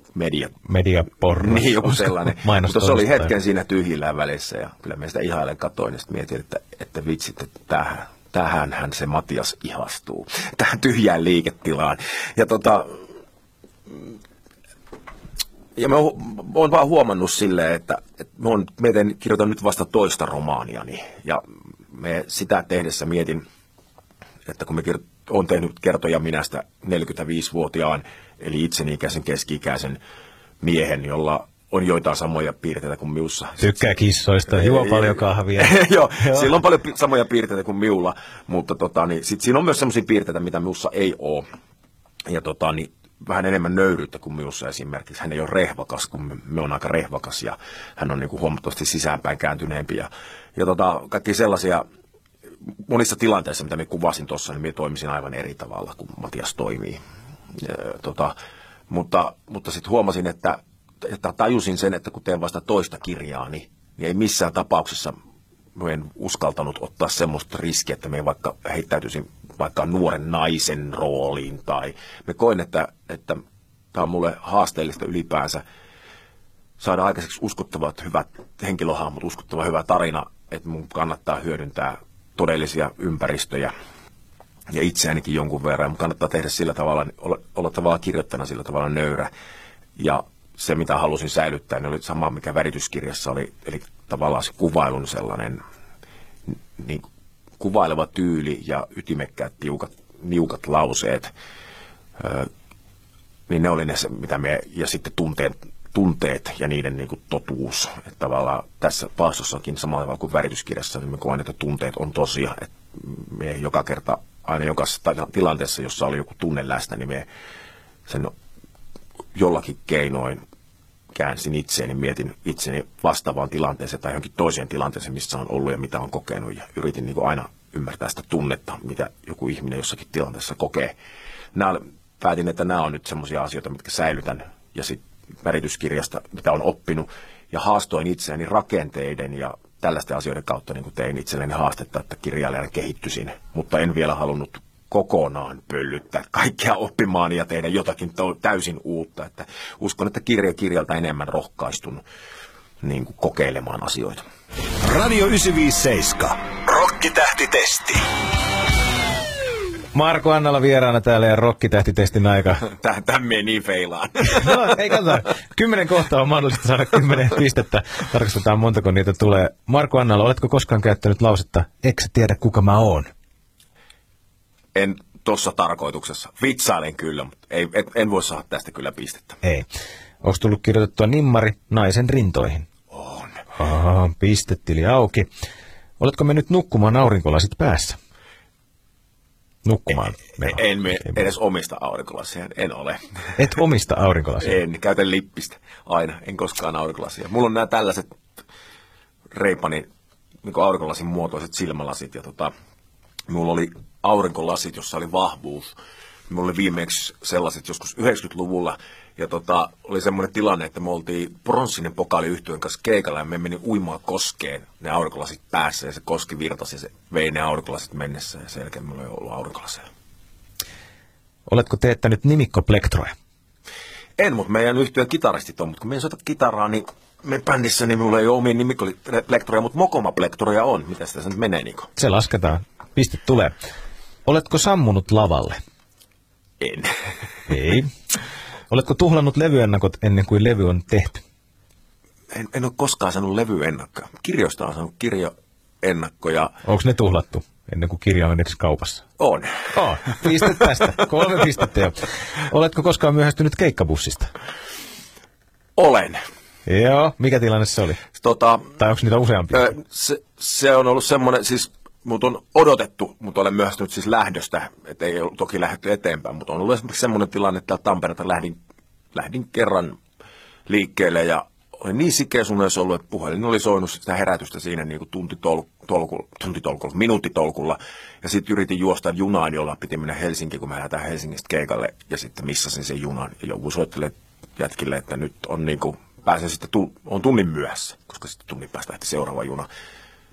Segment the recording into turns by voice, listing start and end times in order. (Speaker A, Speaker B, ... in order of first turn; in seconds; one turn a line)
Speaker A: 0.1-0.6
Speaker B: 0.6-3.3
Speaker A: 1.4-13.0
Speaker A: 13.9-14.1
Speaker A: 15.8-23.4
Speaker A: 24.4-30.0
Speaker A: 30.6-33.9
Speaker B: 33.6-36.5
Speaker A: 34.5-41.5
Speaker A: 42.3-51.8
Speaker A: 52.9-57.0
Speaker A: 57.6-58.3
Speaker A: 58.9-65.2
Speaker A: 65.7-73.4
Speaker A: 73.9-75.6
Speaker A: 76.8-83.7
Speaker A: 84.7-89.3
Speaker A: 90.0-95.6
Speaker A: 96.5-97.0
Speaker A: 97.6-101.3
Speaker A: 102.2-102.5
Speaker A: 103.5-117.2
Speaker A: 118.1-118.3
Speaker A: 119.3-120.4
Speaker A: 121.1-130.9
Speaker A: 131.5-152.0
Speaker A: 152.8-154.2
Speaker C: 154.8-158.1
Speaker B: 159.9-162.6
Speaker A: 162.6-164.8
Speaker B: 164.3-173.1
Speaker A: 174.7-179.4
Speaker B: 179.4-179.7
Speaker B: 180.2-182.7
Speaker A: 182.9-183.4
Speaker B: 183.5-185.3
Speaker B: 186.0-188.0
Speaker B: 189.6-191.2
Speaker A: 190.3-193.3
Speaker B: 193.4-194.6
Speaker A: 194.4-198.1
Speaker A: 199.3-199.9
Speaker A: 200.4-202.5
Speaker A: 203.3-205.7
Speaker A: 206.3-219.8
Speaker B: 221.5-223.1
Speaker A: 224.2-231.9
Speaker B: 231.9-233.5
Speaker B: 234.2-235.6
Speaker A: 236.6-236.9
Speaker B: 237.5-237.9
Speaker B: 238.7-241.2
Speaker A: 242.3-246.6
Speaker B: 246.6-249.0
Speaker A: 249.2-250.9
Speaker B: 249.7-254.3
Speaker A: 255.8-256.2
Speaker B: 256.6-258.0
Speaker A: 258.1-258.7
Speaker B: 258.7-259.7
Speaker A: 259.5-268.6
Speaker A: 269.1-270.0
Speaker A: 270.7-289.7